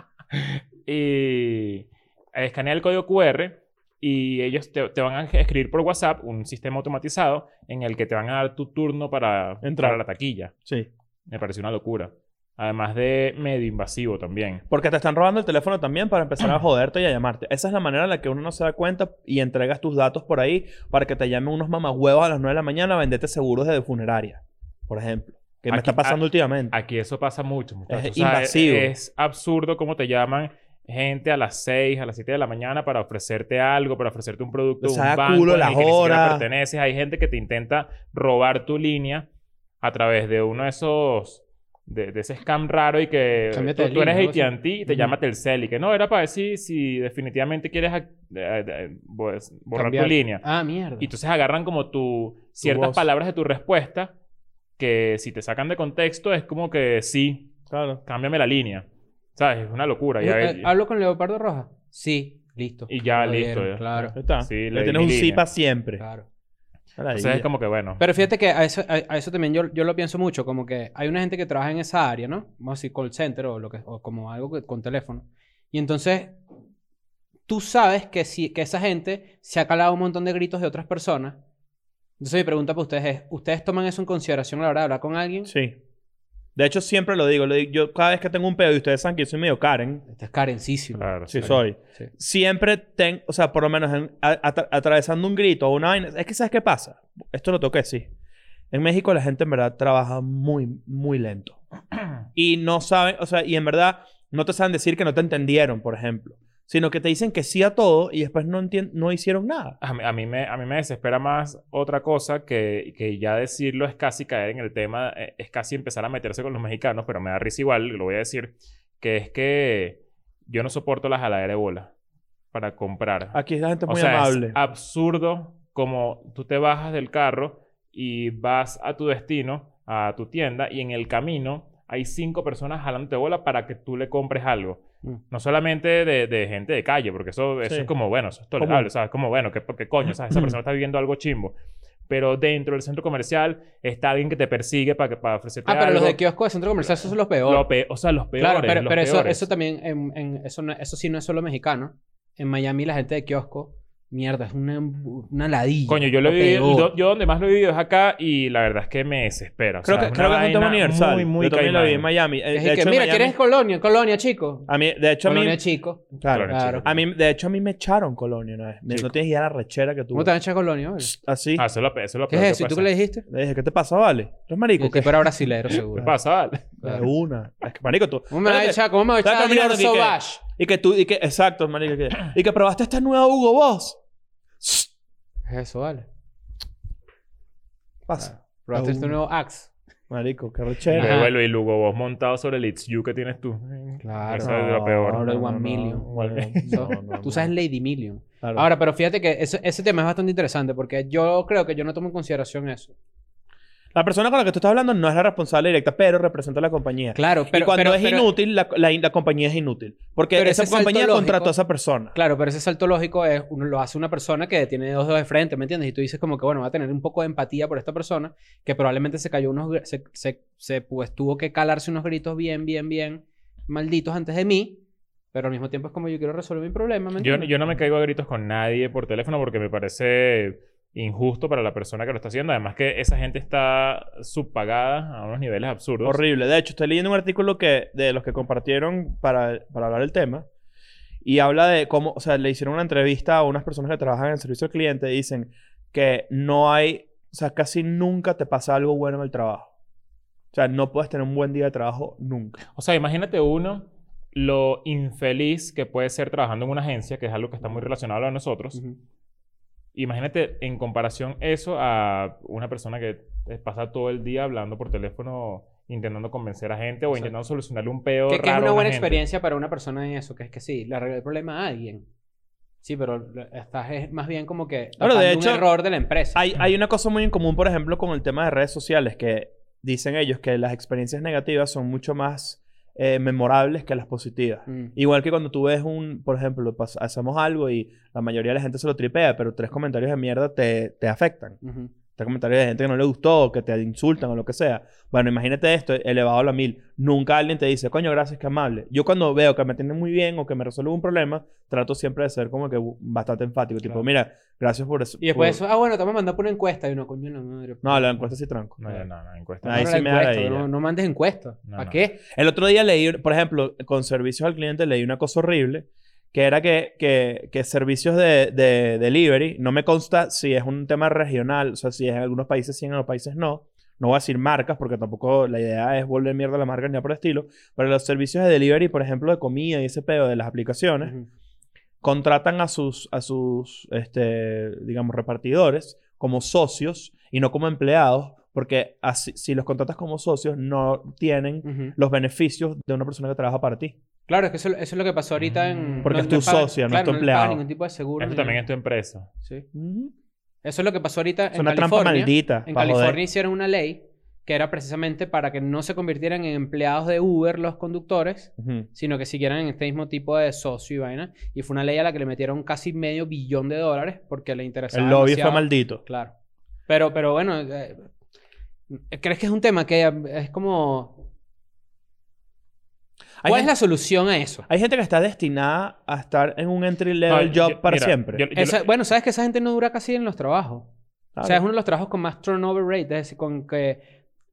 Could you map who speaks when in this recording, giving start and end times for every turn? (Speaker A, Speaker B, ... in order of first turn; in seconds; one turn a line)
Speaker A: 0.3-10.5
Speaker B: 9.6-10.0
Speaker A: 11.3-14.6
Speaker B: 14.7-26.7
Speaker A: 25.7-39.3
Speaker B: 27.9-28.9
Speaker B: 34.8-36.4
Speaker A: 39.8-50.4
Speaker C: 43.5-45.1
Speaker C: 49.7-51.1
Speaker A: 51.0-54.1
Speaker B: 52.6-53.0
Speaker A: 54.8-60.7
Speaker B: 57.7-58.0
Speaker C: 60.2-64.1
Speaker A: 62.9-65.4
Speaker B: 64.1-66.0
Speaker C: 66.0-66.2
Speaker B: 67.0-67.5
Speaker A: 67.1-68.1
Speaker C: 68.0-76.4
Speaker C: 77.5-81.4
Speaker C: 82.2-85.5
Speaker B: 85.5-85.8
Speaker B: 86.6-90.0
Speaker C: 90.1-92.1
Speaker A: 91.0-91.6
Speaker B: 91.3-98.1
Speaker B: 98.7-101.6
Speaker B: 102.3-109.8
Speaker A: 109.8-121.9
Speaker A: 122.5-141.6
Speaker B: 123.3-124.6
Speaker B: 137.6-137.9
Speaker B: 138.6-138.9
Speaker A: 142.1-146.2
Speaker C: 145.7-147.7
Speaker A: 146.8-149.5
Speaker C: 148.4-156.9
Speaker A: 155.9-162.1
Speaker B: 159.8-163.3
Speaker C: 162.5-164.7
Speaker B: 164.7-165.6
Speaker C: 165.2-166.9
Speaker B: 166.2-170.3
Speaker A: 166.2-166.9
Speaker C: 170.1-171.1
Speaker B: 171.0-171.6
Speaker A: 171.6-172.9
Speaker C: 172.3-173.2
Speaker B: 173.3-175.3
Speaker C: 174.8-176.1
Speaker A: 175.7-176.7
Speaker B: 176.8-184.0
Speaker C: 178.3-180.4
Speaker B: 184.6-184.9
Speaker C: 185.4-186.1
Speaker B: 188.1-189.2
Speaker C: 188.2-189.7
Speaker B: 190.1-191.1
Speaker C: 190.9-191.3
Speaker A: 190.9-195.3
Speaker C: 194.0-196.1
Speaker B: 194.4-197.5
Speaker A: 196.1-196.9
Speaker C: 196.6-202.9
Speaker B: 198.4-198.7
Speaker B: 203.9-212.1
Speaker C: 207.1-208.3
Speaker C: 210.4-211.6
Speaker C: 212.1-227.5
Speaker A: 227.2-236.2
Speaker B: 236.0-240.4
Speaker B: 241.2-249.7
Speaker B: 250.5-252.6
Speaker A: 252.7-258.8
Speaker A: 259.9-269.2
Speaker C: 268.3-272.1
Speaker C: 272.8-276.4
Speaker B: 275.0-275.6
Speaker B: 276.4-291.6
Speaker C: 284.7-284.9
Speaker C: 291.6-291.9
Speaker B: 292.1-305.6
Speaker C: 305.2-308.3
Speaker B: 307.8-308.8
Speaker A: 308.8-310.0
Speaker B: 309.6-310.7
Speaker C: 309.6-312.2
Speaker A: 311.7-312.0
Speaker B: 312.3-331.1
Speaker B: 332.0-343.9
Speaker C: 341.6-341.9
Speaker C: 344.3-348.6
Speaker A: 345.4-346.3
Speaker B: 346.0-347.6
Speaker A: 348.2-349.3
Speaker B: 349.7-350.1
Speaker C: 350.6-366.3
Speaker B: 351.5-353.2
Speaker B: 358.6-358.9
Speaker B: 364.9-366.0
Speaker C: 366.9-368.1
Speaker C: 368.9-371.2
Speaker B: 373.4-373.7
Speaker C: 373.4-374.7
Speaker B: 374.7-378.4
Speaker A: 377.3-378.9
Speaker C: 378.6-380.9
Speaker B: 381.4-381.6
Speaker C: 381.4-384.1